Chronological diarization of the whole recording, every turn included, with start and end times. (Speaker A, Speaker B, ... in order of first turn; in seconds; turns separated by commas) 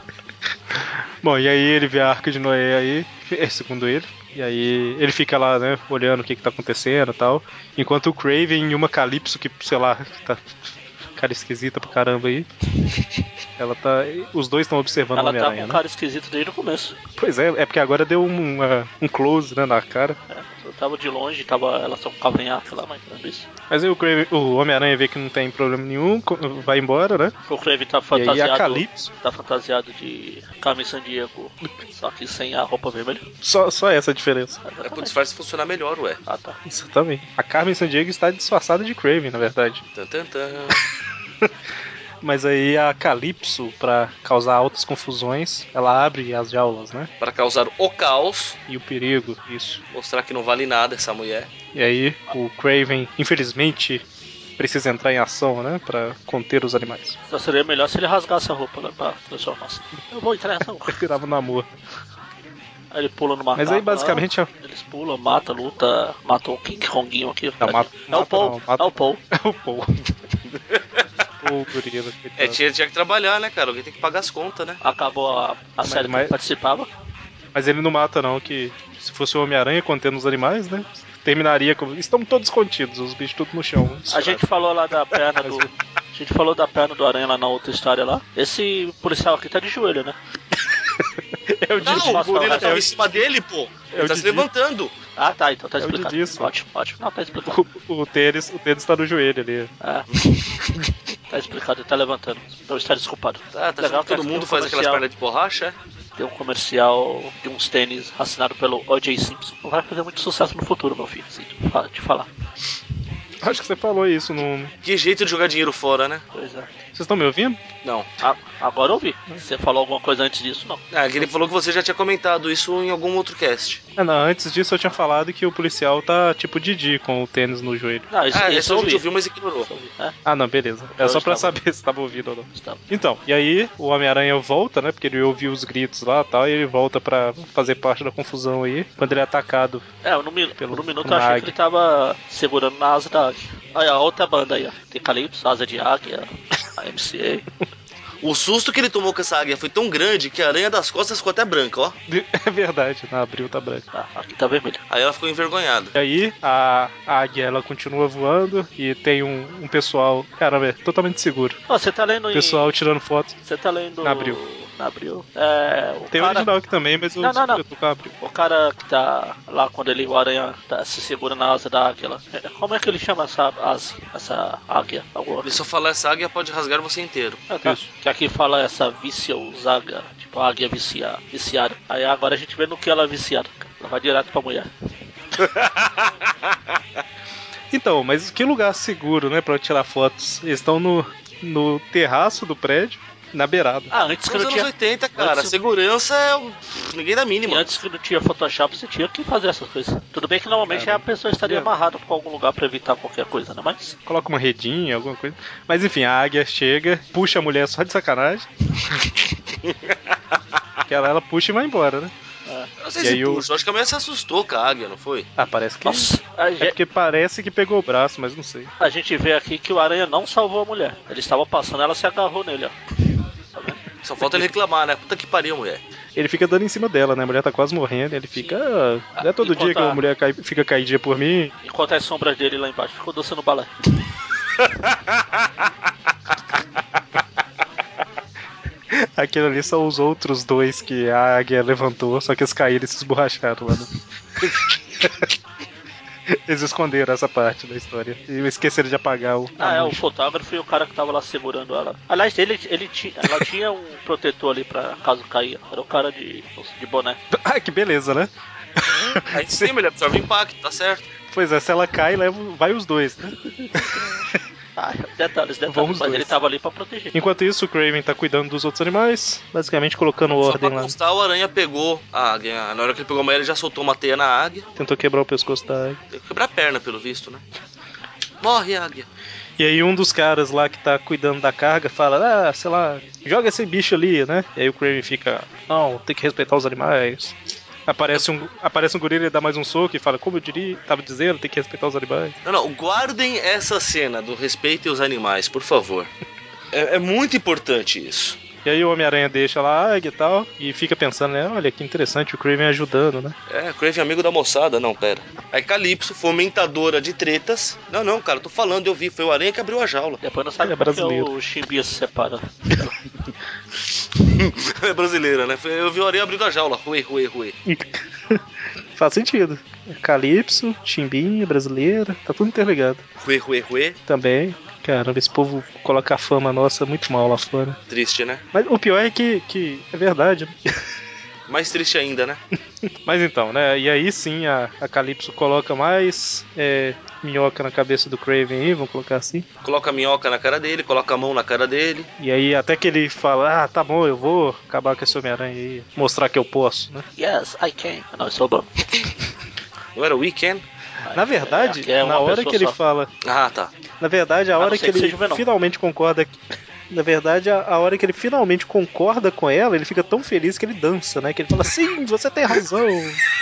Speaker A: 0.7-10.5, Speaker A: 11.2-12.5, Speaker A: 13.6-15.8, Speaker B: 15.1-16.9, Speaker A: 17.1-20.2, Speaker B: 20.3-23.5, Speaker A: 23.7-27.3, Speaker B: 27.5-33.2, Speaker A: 28.1-29.1, Speaker A: 33.4-34.6, Speaker B: 34.6-35.1, Speaker C: 34.8-36.2, Speaker B: 36.2-36.6, Speaker A: 36.6-39.8, Speaker C: 39.9-40.8, Speaker A: 42.2-47.1, Speaker C: 47.2-48.6, Speaker A: 48.7-49.8, Speaker C: 49.9-51.5, Speaker A: 51.7-54.0, Speaker A: 54.6-57.1, Speaker B: 57.3-61.0, Speaker A: 60.9-61.7, Speaker B: 62.9-69.2, Speaker A: 63.5-64.5, Speaker A: 67.6-70.1, Speaker C: 70.7-71.0, Speaker A: 71.4-72.6, Speaker C: 72.4-74.8, Speaker B: 74.8-76.9, Speaker A: 75.8-76.3, Speaker A: 77.5-84.4, Speaker B: 84.1-90.2, Speaker A: 85.4-85.7, Speaker A: 90.7-93.0, Speaker B: 91.8-92.8, Speaker C: 91.8-94.9, Speaker A: 93.9-94.5, Speaker B: 95.2-97.6, Speaker A: 95.8-96.5, Speaker A: 97.5-99.7, Speaker B: 99.8-100.1, Speaker B: 101.3-105.0, Speaker C: 103.5-105.8, Speaker B: 106.2-112.3, Speaker A: 113.4-114.7, Speaker C: 114.8-116.2, Speaker B: 116.3-116.7, Speaker A: 116.9-117.6, Speaker B: 118.2-121.3, Speaker C: 120.9-123.8, Speaker A: 124.0-128.1, Speaker B: 128.1-129.0, Speaker C: 128.3-129.7, Speaker B: 129.6-130.1, Speaker A: 130.2-139.8, Speaker B: 130.9-131.5, Speaker B: 132.5-132.8, Speaker B: 140.0-147.4, Speaker A: 140.6-141.5, Speaker C: 148.2-151.9, Speaker A: 152.1-153.8, Speaker B: 153.9-154.8, Speaker C: 154.9-155.9, Speaker A: 155.9-161.6, Speaker B: 161.7-162.7, Speaker A: 162.3-163.3, Speaker B: 163.4-166.5, Speaker A: 164.0-164.4, Speaker A: 166.1-168.1, Speaker B: 167.2-167.6, Speaker B: 168.2-175.6, Speaker C: 175.4-177.5, Speaker B: 177.5-184.7, Speaker C: 185.4-186.1, Speaker A: 187.7-193.9, Speaker B: 193.9-195.5, Speaker C: 194.3-197.7, Speaker B: 197.4-203.9, Speaker A: 200.7-201.7, Speaker A: 204.1-208.5, Speaker C: 209.6-209.9, Speaker A: 210.9-212.1, Speaker C: 212.8-215.3, Speaker A: 213.0-213.5, Speaker A: 215.4-216.1, Speaker B: 215.8-216.8, Speaker A: 216.6-218.7, Speaker B: 218.8-222.8, Speaker B: 223.5-223.8, Speaker C: 224.0-225.8, Speaker A: 226.2-231.5, Speaker B: 229.2-230.0, Speaker B: 231.6-233.7, Speaker A: 238.9-243.9, Speaker A: 244.4-245.3, Speaker A: 246.3-250.0, Speaker B: 249.6-257.2, Speaker A: 257.3-259.7, Speaker C: 259.3-261.1, Speaker A: 261.3-264.4, Speaker B: 263.6-267.1, Speaker A: 265.7-266.3, Speaker A: 267.1-270.9, Speaker C: 270.4-274.6, Speaker A: 274.8-276.0, Speaker C: 276.1-277.4, Speaker C: 278.4-279.1, Speaker A: 279.6-287.3, Speaker A: 287.9-292.3, Speaker C: 292.4-296.1, Speaker C: 296.7-298.4, Speaker A: 298.6-303.4, Speaker C: 303.5-310.2, Speaker B: 310.2-312.9, Speaker A: 310.6-311.3, Speaker C: 314.2-317.6, Speaker A: 317.6-318.4, Speaker A: 318.9-323.0, Speaker C: 323.2-324.0, Speaker A: 324.1-327.8, Speaker C: 327.9-328.4, Speaker A: 328.5-330.6, Speaker C: 331.5-332.4, Speaker A: 333.0-339.4, Speaker C: 339.6-342.1, Speaker A: 342.2-347.0, Speaker B: 347.2-348.7, Speaker C: 349.9-350.6, Speaker B: 351.0-352.8, Speaker A: 351.1-353.1, Speaker C: 353.2-353.7, Speaker A: 354.0-356.3, Speaker B: 354.6-355.4, Speaker A: 356.9-363.2